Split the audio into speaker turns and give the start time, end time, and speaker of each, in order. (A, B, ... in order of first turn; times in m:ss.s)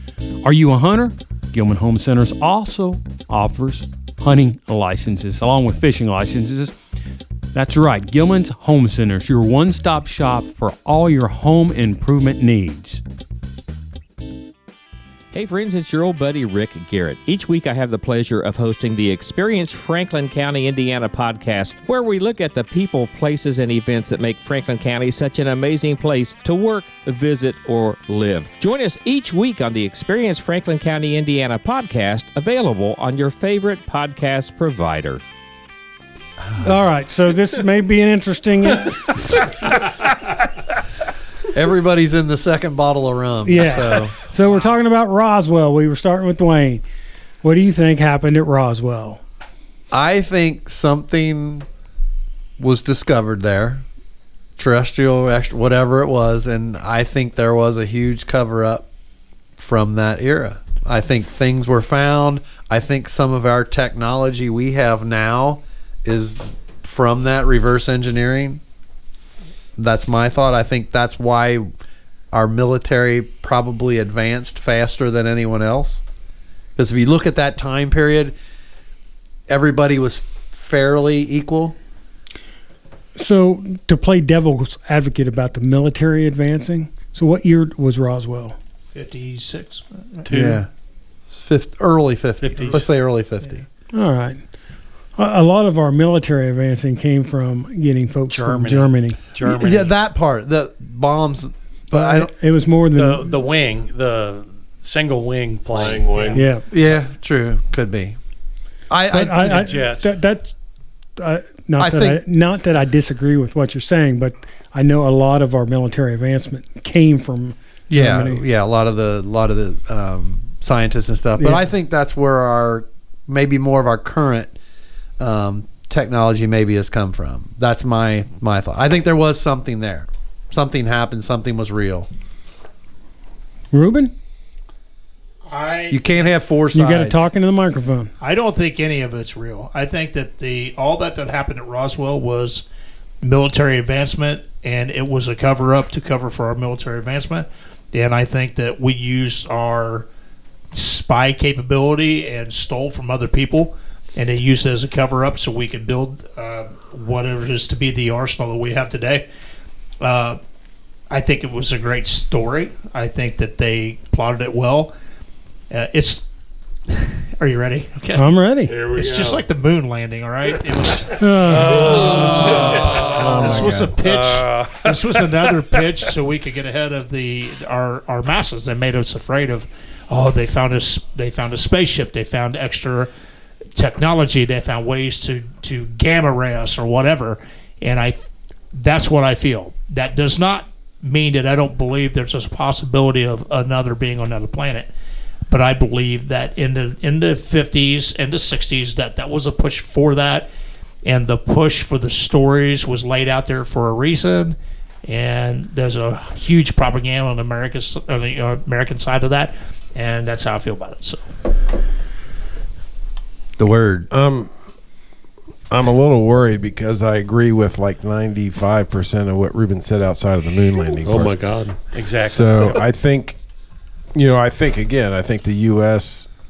0:00.4-0:06.7 A
0:07.5-0:13.0 A
0:15.3-0:35.2 B
0:36.6-0:39.4 C
0:41.5-0:44.2 D
0:43.4-0:46.8 C
0:47.4-0:49.2 C
0:49.9-0:51.6 D
0:52.6-0:53.8 D
0:54.6-0:58.9 D
0:59.6-1:08.6 D
1:09.8-1:11.7 D
1:12.3-1:16.0 D
1:16.8-1:18.3 D
1:19.5-1:21.7 D
1:23.1-1:28.6 C
1:28.9-1:30.2 E
1:30.2-1:30.6 F
1:30.3-1:30.7 D
1:31.3-1:33.6 D
1:32.4-1:32.9 F
1:33.9-1:34.4 C
1:35.2-1:39.2 C
1:38.3-1:39.9 F
1:39.4-1:42.3 D
1:41.9-1:43.2 C
1:43.0-1:46.4 F
1:45.7-1:46.4 G
1:46.3-1:46.6 C
1:46.7-1:48.2 D
1:48.9-1:49.9 D
1:49.1-1:50.5 C
1:49.4-1:50.1 F
1:51.2-1:58.4 C
1:51.8-1:52.2 D
1:57.9-2:04.5 D
2:01.4-2:01.7 C
2:05.2-2:12.1 D
2:13.7-2:14.1 C
2:15.5-2:16.3 E
2:15.9-2:17.2 D
2:16.7-2:18.1 C
2:18.2-2:22.6 E
2:23.2-2:30.1 E
2:30.7-2:39.3 E
2:40.0-2:40.4 E
2:41.1-2:44.9 E
2:45.7-2:46.2 E
2:46.9-2:48.2 E
2:48.1-2:48.8 C
2:48.7-2:49.4 G
2:48.9-3:03.1 E
2:51.2-2:52.1 C
2:51.5-2:55.2 F
2:51.8-2:53.3 G
2:53.2-2:53.8 H
3:03.7-3:14.9 E
3:15.5-3:20.5 E
3:21.0-3:31.2 E
3:33.6-3:34.1 D
3:34.1-3:34.5 H
3:35.7-3:41.4 H
3:41.0-3:41.8 G
3:41.9-3:42.8 F
3:42.2-3:43.4 H
3:44.1-3:46.3 H